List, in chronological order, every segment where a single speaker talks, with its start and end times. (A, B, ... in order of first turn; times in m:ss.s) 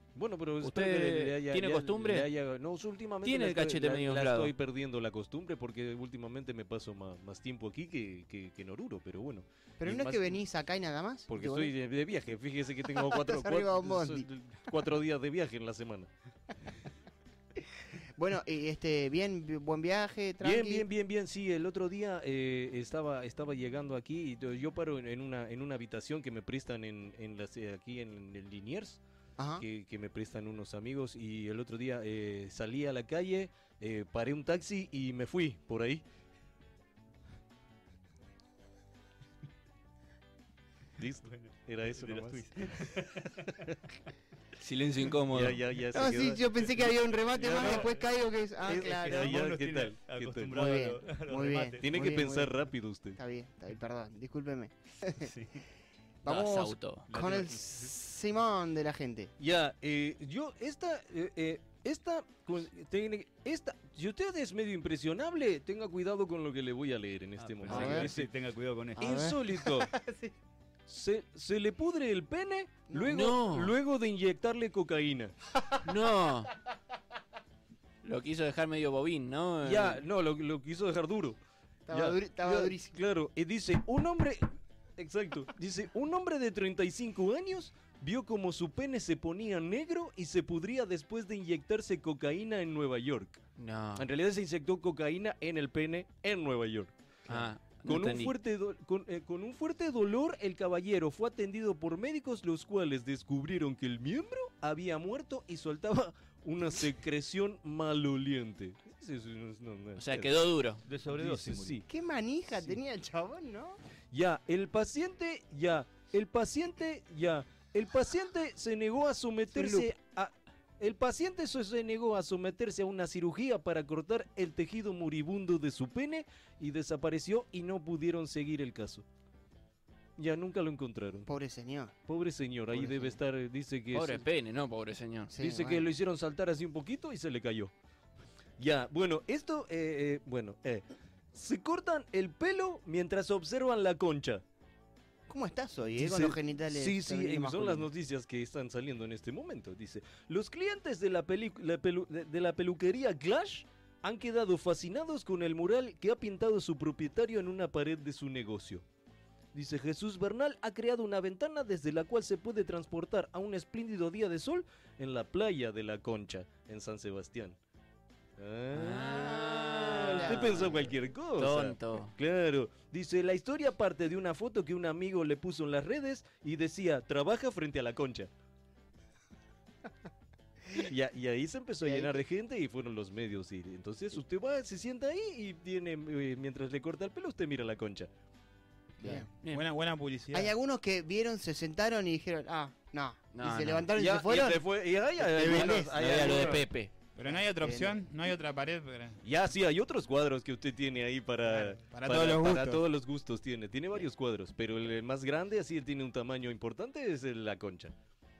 0:00.2-0:10.4 A
0:00.6-0:02.3 B
0:03.2-0:04.5 B
0:09.8-0:11.7 C
0:11.3-0:16.1 A
0:12.9-0:14.2 C
0:18.2-0:20.8 C
0:20.4-0:29.0 A
0:29.4-0:29.6 C
0:29.6-0:36.0 A
0:41.0-0:43.8 A
0:41.3-0:43.4 D
0:44.6-0:45.6 B
0:45.2-0:46.4 A
0:45.9-0:49.4 C
0:47.4-0:48.0 D
0:47.4-0:47.9 A
0:48.6-0:52.2 D
0:48.6-0:50.7 A
0:50.5-0:52.6 C
0:51.8-0:53.2 A
0:53.2-0:55.3 C
0:55.2-0:55.6 D
0:56.2-0:59.3 C
0:56.2-0:57.1 B
0:57.1-0:57.9 D
0:59.4-1:08.3 A
1:07.4-1:09.1 D
1:07.7-1:08.1 C
1:09.0-1:10.3 C
1:09.0-1:09.9 A
1:10.9-1:15.3 A
1:12.9-1:13.2 C
1:13.0-1:13.8 B
1:15.8-1:16.5 B
1:18.0-1:20.0 B
1:19.6-1:21.4 A
1:21.9-1:23.0 C
1:21.9-1:33.4 A
1:33.6-1:34.1 B
1:34.0-1:36.9 A
1:37.3-1:38.3 B
1:37.8-1:50.3 A
1:50.0-1:50.8 B
1:50.8-1:51.8 D
1:51.1-1:51.8 A
1:51.8-1:53.8 C
1:54.1-2:09.0 A
1:59.5-1:59.9 C
2:10.2-2:11.3 A
2:11.3-2:11.9 C
2:12.1-2:14.2 A
2:12.7-2:13.2 C
2:13.9-2:15.3 B
2:15.3-2:15.9 C
2:15.4-2:17.7 A
2:18.6-2:24.4 A
2:25.3-2:27.9 C
2:26.0-2:38.8 A
2:39.5-2:47.6 A
2:48.4-2:58.3 A
2:48.7-2:52.1 B
2:49.9-2:50.4 C
3:00.7-3:08.1 A
3:01.8-3:02.2 C
3:09.0-3:09.3 C
3:09.4-3:09.7 B
3:09.4-3:10.5 E
3:10.3-3:16.6 C
3:13.3-3:13.9 B
3:13.9-3:16.7 A
3:15.8-3:16.9 B
3:17.2-3:19.2 E
3:17.2-3:18.0 C
3:19.2-3:27.9 A
3:21.5-3:22.8 E